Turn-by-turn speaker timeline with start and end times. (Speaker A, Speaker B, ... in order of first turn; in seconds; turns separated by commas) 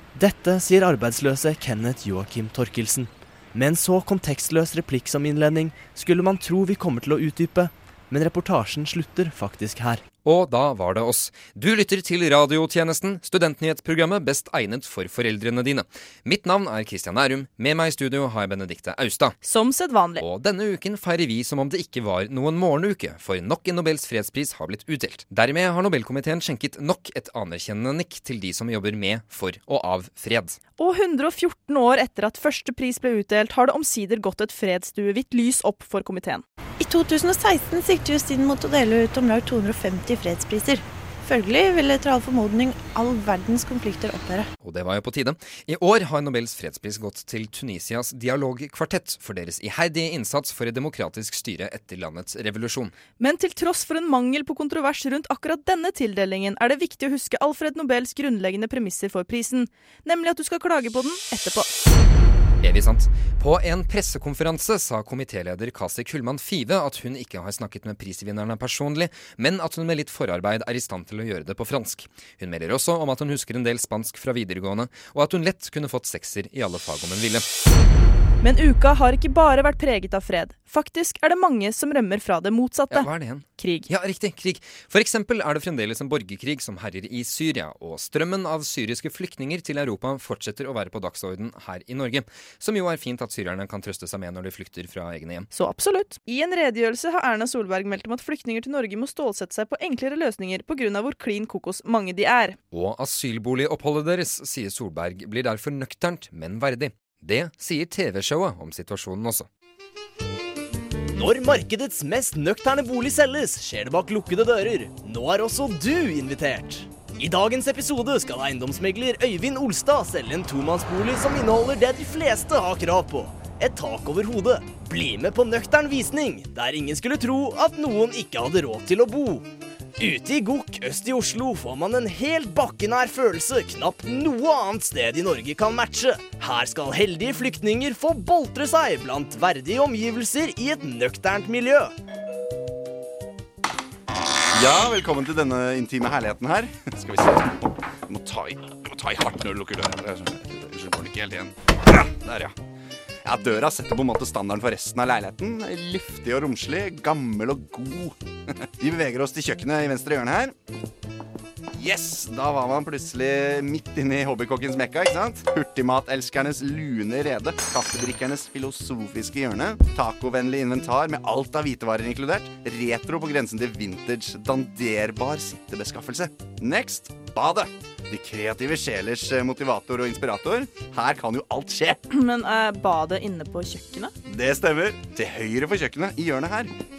Speaker A: 0.1-10.0, Speaker B: 10.2-19.4, Speaker C: 19.4-20.2, Speaker B: 20.2-30.6, Speaker C: 30.8-36.4, Speaker D: 36.8-44.5, Speaker B: 44.6-52.9, Speaker C: 53.2-61.7, Speaker B: 62.6-77.5, Speaker C: 78.4-83.9, Speaker B: 82.9-95.5, Speaker C: 95.5-102.6, Speaker B: 102.7-109.5, Speaker A: 111.2-129.5, Speaker A: 130.0-141.9, Speaker E: 144.5-152.6, Speaker E: 153.2-158.2, Speaker E: 158.8-160.6, Speaker E: 161.7-182.0, Speaker C: 182.1-184.1, Speaker E: 184.3-186.7